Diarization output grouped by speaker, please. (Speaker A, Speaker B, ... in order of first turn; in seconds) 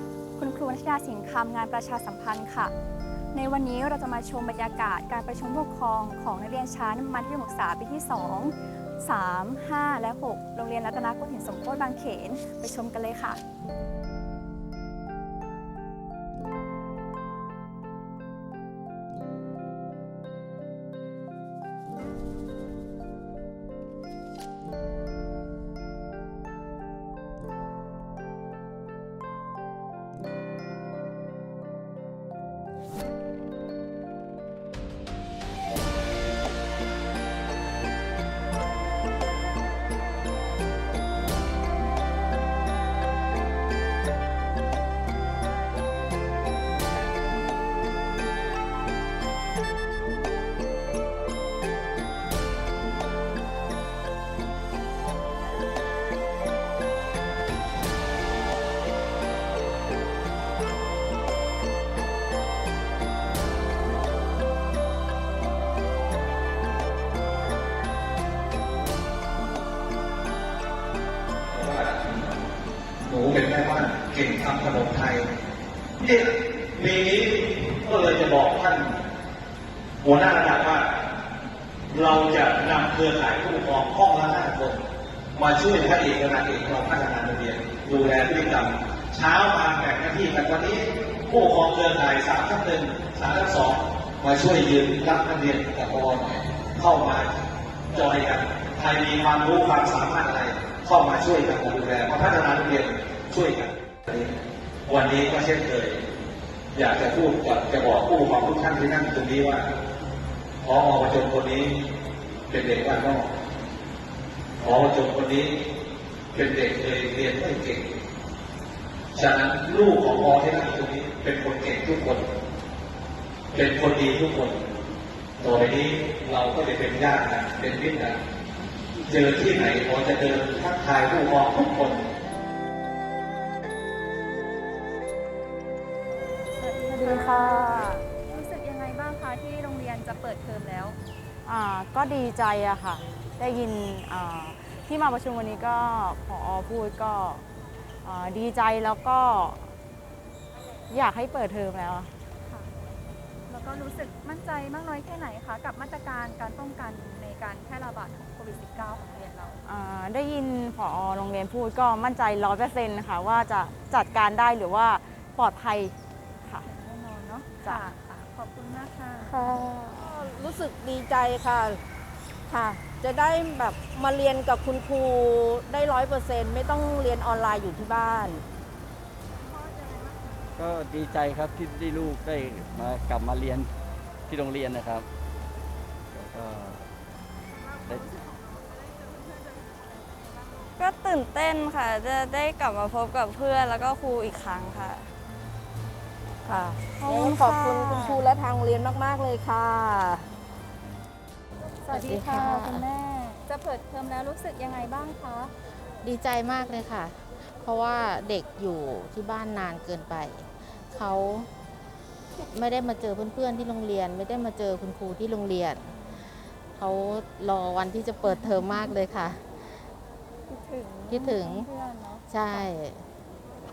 Speaker A: 0.4-2.7, 3.3-13.4, 136.6-141.0, 153.5-159.6, 166.6-169.3, 179.5-180.3, 187.6-190.7, 201.8-205.5, 220.5-222.7
Speaker B: 71.5-72.4, 73.0-75.3, 76.0-79.0, 80.0-80.9, 81.9-84.8, 85.3-97.3, 97.9-104.3, 104.9-106.0, 106.7-109.7, 110.6-111.7, 112.5-113.3, 114.6-115.5, 116.3-117.9, 119.1-122.3, 123.5-124.6, 125.4-128.2, 129.1-132.1
Speaker C: 136.9-137.9, 141.4-147.4, 148.0-149.7, 150.9-152.1, 159.6-165.9, 169.4-169.9, 197.0-198.2
Speaker D: 169.9-171.8, 172.5-178.4, 196.5-200.3
Speaker E: 180.6-183.7, 184.3-185.1, 186.1-186.9
Speaker F: 190.8-195.1
Speaker G: 201.9-202.8, 206.0-211.5, 212.5-215.9, 216.7-219.5, 221.1-221.7, 222.3-223.0